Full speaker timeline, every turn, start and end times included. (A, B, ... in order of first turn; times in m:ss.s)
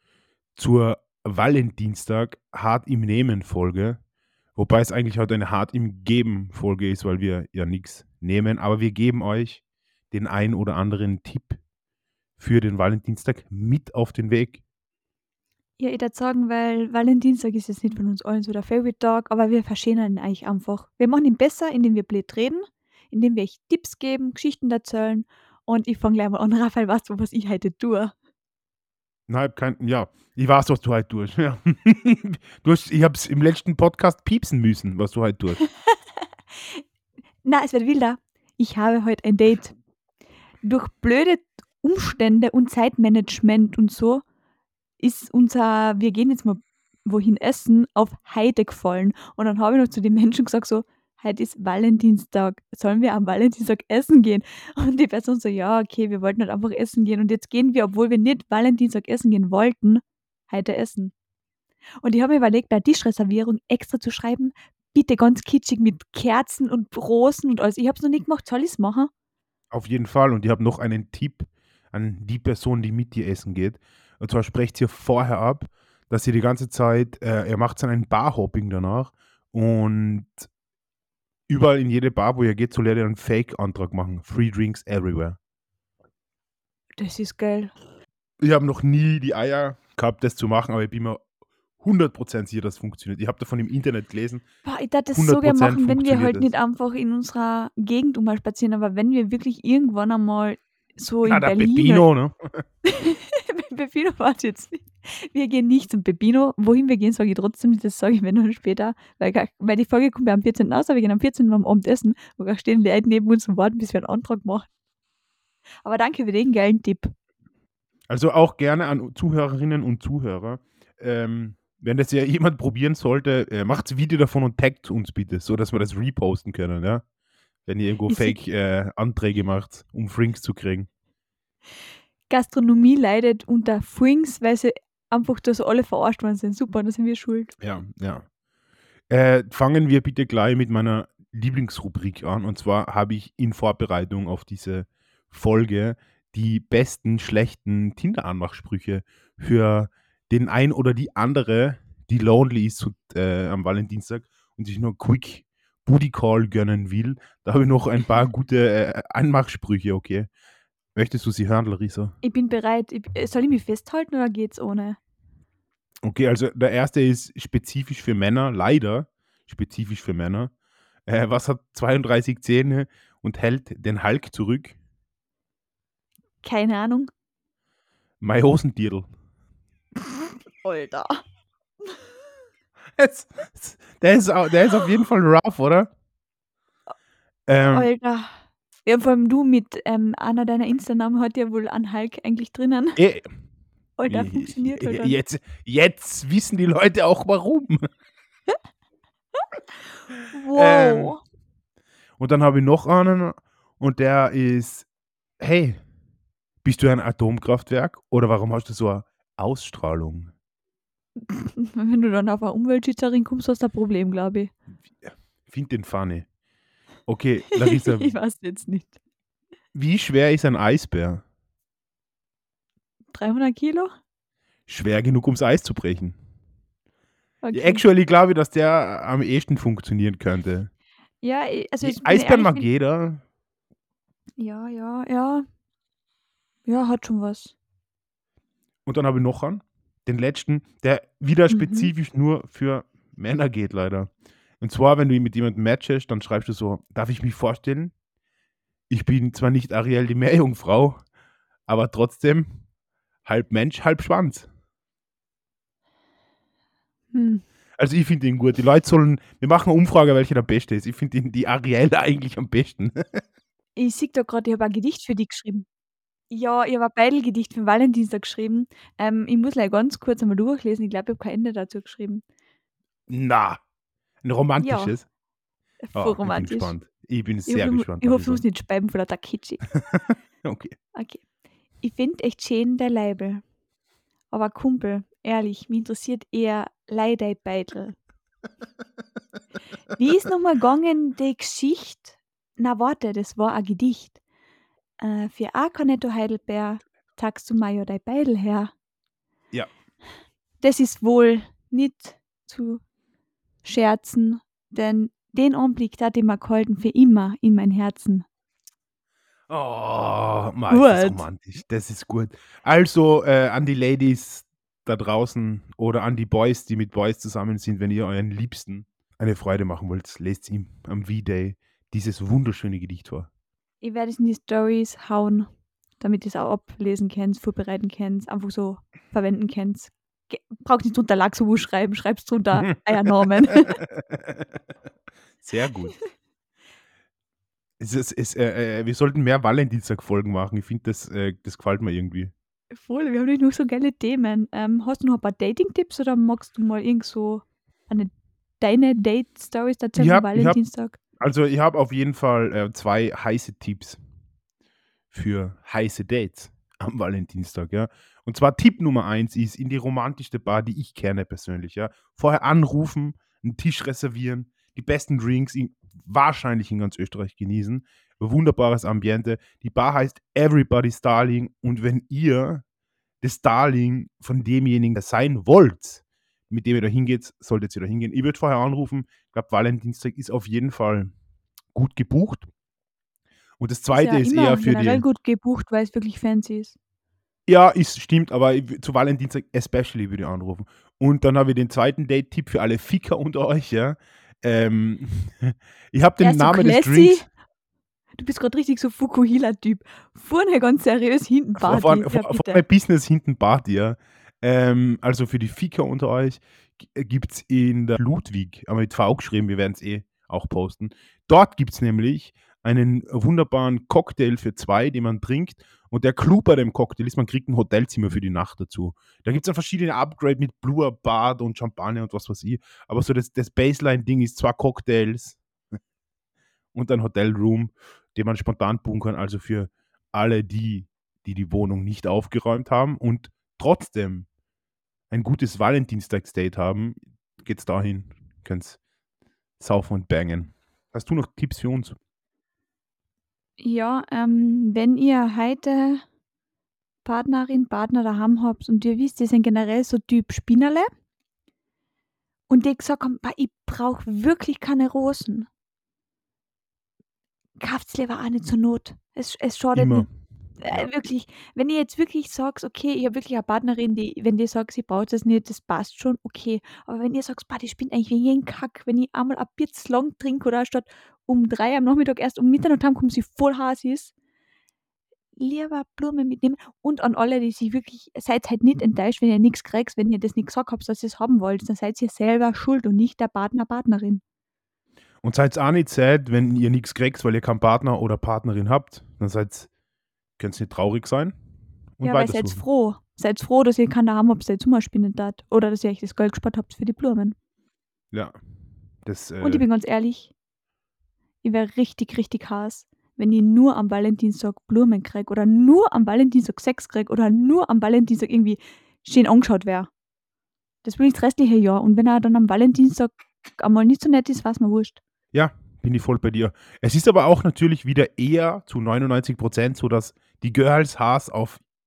0:00.6-0:04.0 A
0:04.6-0:11.6 A
0:12.4-0:14.6 A
0:15.8-0:28.1 B
0:29.3-0:35.6 A
0:35.6-0:36.0 B
0:37.4-0:39.7 B
0:40.6-0:44.2 B
0:45.0-1:01.1 B
1:02.0-1:09.1 B
1:09.7-1:20.5 A
1:21.5-1:25.4 A
1:27.0-1:27.7 B
1:28.4-1:31.2 A
1:31.8-1:34.4 A
1:34.6-1:42.0 B
1:35.1-1:36.5 A
1:41.2-1:42.6 A
1:42.8-1:54.7 B
1:55.8-1:57.1 B
1:58.1-2:07.0 A
2:07.6-2:10.9 A
2:08.1-2:08.4 B
2:12.3-2:17.5 B
2:17.6-2:18.2 A
2:19.1-2:40.3 A
2:40.9-2:42.1 A
2:42.2-2:45.0 B
2:46.0-2:50.5 A
2:51.1-2:54.8 A
2:56.4-2:57.1 B
2:58.2-2:59.1 A
3:00.0-3:01.2 B
3:03.0-3:05.9 A
3:07.5-3:07.9 A
3:07.6-3:13.0 B
3:13.0-3:13.3 A
3:14.0-3:15.2 B
3:14.1-3:17.9 A
3:20.3-3:21.2 B
3:20.5-3:21.1 A
3:22.2-3:24.9 A
3:25.4-3:25.8 A
3:26.6-3:30.3 A
3:31.3-3:34.5 B
3:35.0-3:36.2 A
3:37.1-3:38.1 A
3:37.5-3:39.0 B
3:39.7-3:41.2 A
3:43.1-3:43.9 B
3:44.7-3:46.2 A
3:47.4-3:47.8 B
3:47.5-3:50.7 A
3:51.2-3:52.7 B
3:51.8-3:53.2 A
3:54.4-3:55.4 B
3:56.6-3:57.5 B
3:58.8-4:04.1 A
4:01.5-4:01.9 B
4:04.6-4:07.9 A
4:08.9-4:11.0 A
4:11.7-4:12.6 A
4:13.2-4:14.5 A
4:17.1-4:17.4 B
4:17.8-4:23.2 A
4:23.8-4:25.6 B
4:26.3-4:32.2 B
4:33.1-4:33.6 A
4:34.2-4:35.0 A
4:34.6-4:34.9 B
4:35.8-4:36.7 B
4:35.9-4:38.4 A
4:37.4-4:39.6 B
4:39.9-4:40.7 A
4:40.9-4:41.2 B
4:41.8-4:43.4 B
4:44.3-4:48.0 B
4:49.9-4:54.2 B
4:55.0-4:58.7 B
5:00.6-5:02.8 B
5:03.6-5:08.2 B
5:09.5-5:23.3 A
5:10.7-5:11.2 B
5:23.8-5:25.5 B
5:26.0-5:33.8 B
5:33.8-5:34.4 A
5:35.4-5:36.0 A
5:37.8-5:42.3 A
5:42.7-5:51.0 B
5:50.0-5:50.6 A
5:51.2-5:54.0 A
5:55.1-6:12.6 A
6:13.2-6:21.1 A
6:21.7-6:22.5 A
6:23.6-6:25.0 A
6:23.9-6:26.8 B
6:27.5-6:37.2 A
6:36.2-6:37.2 B
6:38.2-6:42.6 B
6:41.6-7:05.4 A
7:06.7-7:14.3 A
7:15.1-7:18.8 A
7:19.6-7:22.0 A
7:23.6-7:26.0 B
7:27.0-7:30.9 B
7:32.5-7:35.5 B
7:37.6-7:40.0 B
7:39.7-7:40.0 A
7:40.6-7:54.1 B
7:55.4-8:04.2 B
8:05.2-8:09.7 A
8:10.4-8:11.3 A
8:12.0-8:12.6 A
8:12.0-8:17.3 B
8:19.0-8:19.6 A
8:19.4-8:20.3 B
8:21.4-8:29.9 B
8:30.8-8:35.0 B
8:35.3-8:41.6 A